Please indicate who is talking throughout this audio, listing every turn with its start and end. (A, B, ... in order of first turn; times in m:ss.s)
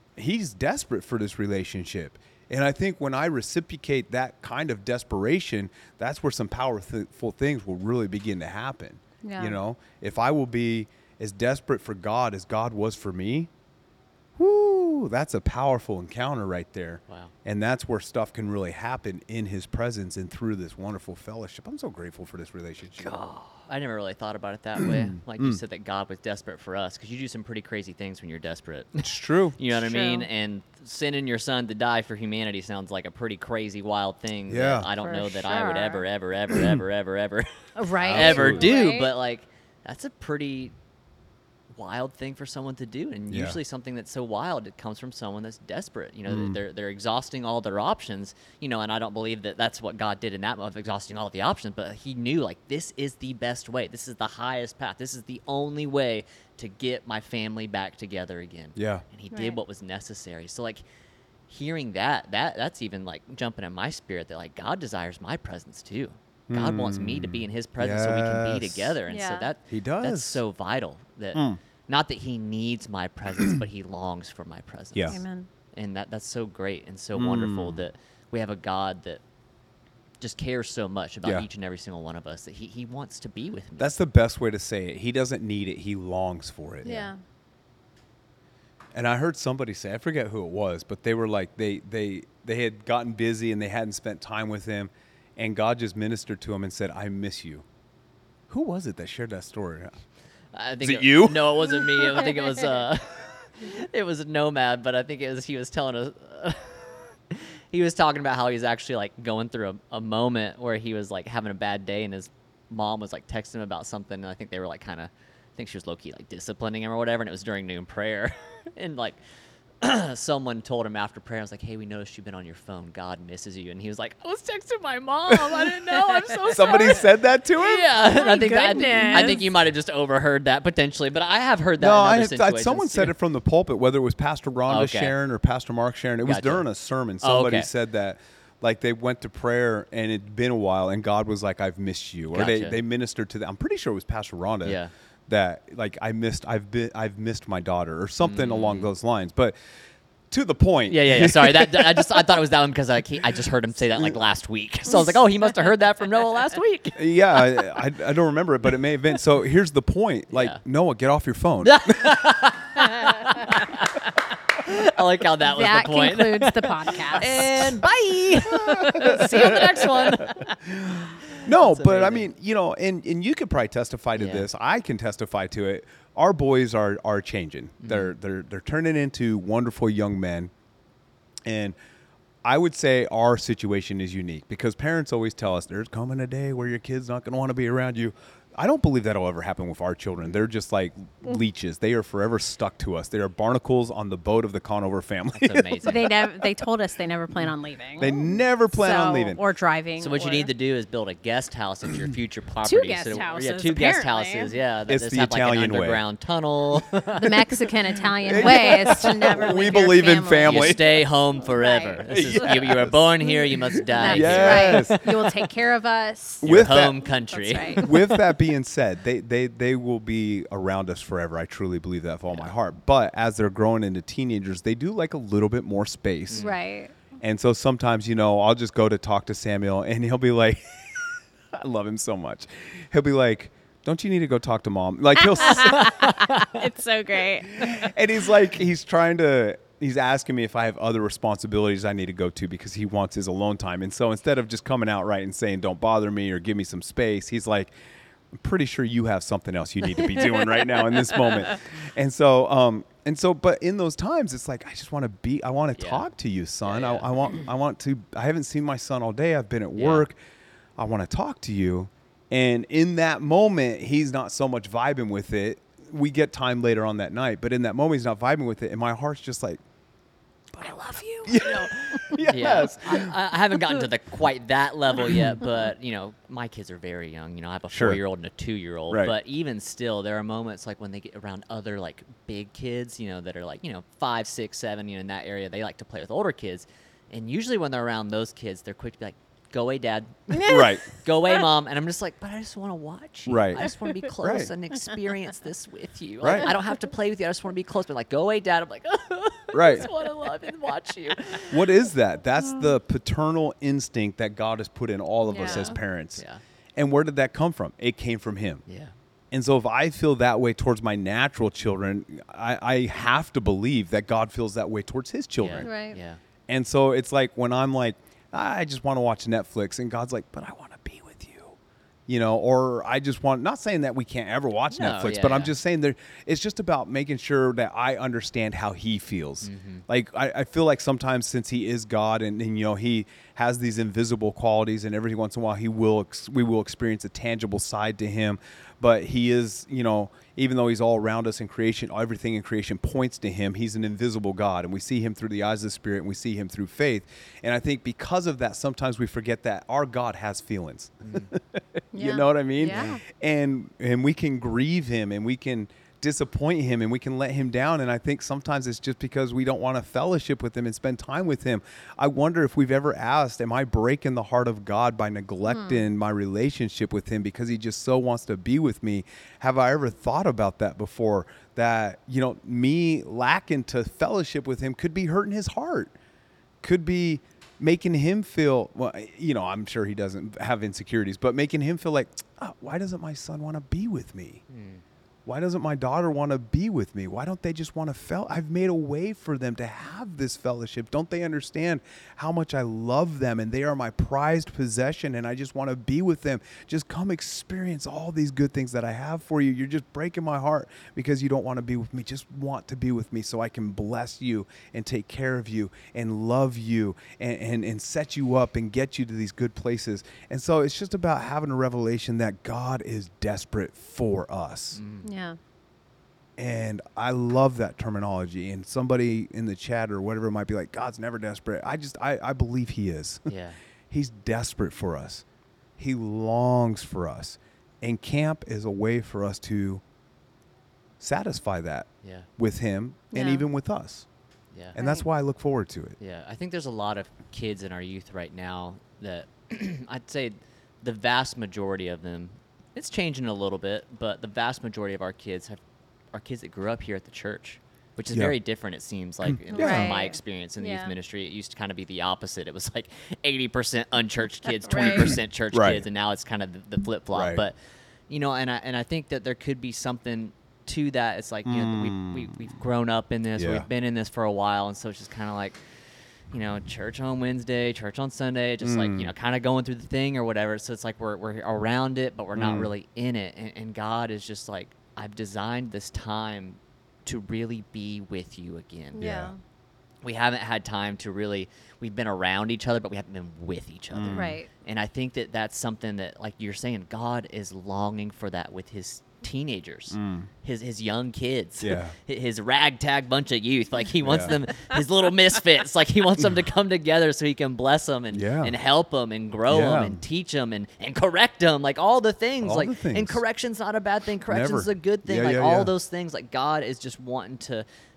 0:00.2-0:13.5 A
0:09.2-0:09.6 B
0:14.4-0:23.1 A
0:17.1-0:17.3 C
0:23.0-0:40.7 C
0:24.8-0:25.6 A
0:29.0-0:29.6 A
0:29.7-0:30.3 B
0:34.5-0:34.9 A
0:35.0-0:36.0 B
0:36.5-0:36.8 A
0:37.8-0:39.1 B
0:38.0-0:38.7 A
0:41.7-1:00.8 C
0:43.3-0:43.6 A
0:46.3-0:46.6 A
0:58.8-0:59.0 A
0:59.3-0:59.6 B
1:01.5-1:15.2 C
1:06.5-1:09.0 A
1:09.1-1:09.5 B
1:09.7-1:10.4 A
1:11.3-1:11.6 A
1:14.9-1:15.2 A
1:15.1-1:15.5 B
1:15.7-1:19.2 C
1:17.1-1:17.8 A
1:20.2-1:23.9 C
1:23.8-1:27.1 A
1:26.8-1:27.2 B
1:28.9-1:37.6 A
1:38.5-1:39.9 A
1:40.5-1:59.2 C
1:40.8-1:42.3 A
1:59.8-2:13.1 C
2:05.3-2:05.7 A
2:06.2-2:07.0 B
2:06.5-2:07.9 A
2:08.0-2:09.5 B
2:09.0-2:09.3 A
2:11.8-2:29.5 A
2:14.7-2:15.1 C
2:16.2-2:16.6 C
2:17.2-2:17.7 C
2:22.3-2:22.8 C
2:24.6-2:24.9 C
2:28.2-2:28.9 C
2:30.3-2:32.2 A
2:30.9-2:37.6 C
2:37.0-2:42.2 A
2:40.3-2:40.6 C
2:41.6-2:50.6 C
2:45.4-2:47.8 B
2:48.4-3:00.5 A
2:51.2-2:52.3 C
2:54.1-2:54.5 C
2:57.8-2:58.1 C
3:01.4-3:01.8 A
3:02.4-3:16.4 A
3:15.4-3:16.1 C
3:15.8-3:20.5 B
3:18.0-3:19.4 A
3:20.0-3:27.5 C
3:22.6-3:24.5 B
3:24.9-3:26.0 A
3:27.2-3:32.6 B
3:28.2-3:30.8 A
3:28.4-3:29.3 C
3:30.4-3:35.3 C
3:32.1-3:33.2 A
3:33.9-3:38.0 B
3:34.0-3:35.1 A
3:36.4-3:37.9 C
3:36.4-3:37.0 A
3:37.8-3:46.5 A
3:46.3-3:46.5 C
3:46.4-3:46.9 B
3:47.2-3:56.1 A
3:55.2-3:57.9 B
3:55.6-3:56.5 C
3:57.5-4:07.7 A
4:08.3-4:20.2 A
4:15.8-4:16.0 C
4:16.6-4:17.1 C
4:19.8-4:20.1 C
4:20.8-4:29.6 A
4:30.6-4:31.4 B
4:30.6-5:01.7 C
4:31.2-4:33.8 A
4:35.0-4:35.4 A
4:37.7-4:38.0 A
4:50.3-4:50.8 B
4:50.4-4:50.9 A
4:53.3-4:53.7 A
4:54.2-4:54.5 A
4:56.2-4:56.5 A
4:59.5-4:59.9 A
5:01.5-5:06.2 A
5:05.3-5:05.8 B
5:05.4-5:06.4 C
5:06.8-5:08.6 A
5:08.7-5:08.9 C
5:09.3-5:15.7 A
5:15.4-5:16.2 C
5:15.6-5:16.0 B
5:16.5-6:15.9 A
5:24.7-5:25.5 C
5:29.4-5:29.8 C
5:51.0-5:51.3 C
5:51.9-5:53.0 B
6:05.5-6:05.8 B
6:16.6-6:24.4 A
6:24.5-6:24.8 C
6:25.2-6:54.8 A
6:54.7-6:55.1 C
6:55.0-6:55.4 B
6:56.4-7:03.3 A
7:03.3-7:03.6 C
7:03.9-7:05.2 A
7:05.8-7:09.8 A
7:11.0-7:14.1 A
7:12.0-7:12.3 C
7:13.1-7:13.5 B
7:14.5-7:14.8 C
7:14.7-7:16.0 A
7:14.8-7:15.0 B
7:16.0-7:25.6 C
7:26.1-7:37.5 C
7:29.2-7:29.9 A
7:29.5-7:30.9 B
7:34.6-7:35.2 B
7:34.8-7:35.8 A
7:37.1-7:37.4 A
7:38.1-7:45.6 C
7:41.4-7:42.3 A
7:43.4-7:43.7 A
7:46.3-7:59.1 C
7:48.6-7:49.1 A
7:52.4-7:52.7 A
7:58.9-7:59.4 B
7:59.0-7:59.3 A
8:00.0-8:27.6 C
8:03.9-8:04.4 A
8:04.1-8:04.5 B
8:09.9-8:10.3 A
8:11.6-8:11.9 A
8:14.0-8:14.4 A
8:18.1-8:18.5 A
8:19.5-8:20.0 A
8:22.4-8:23.2 A
8:24.3-8:25.7 A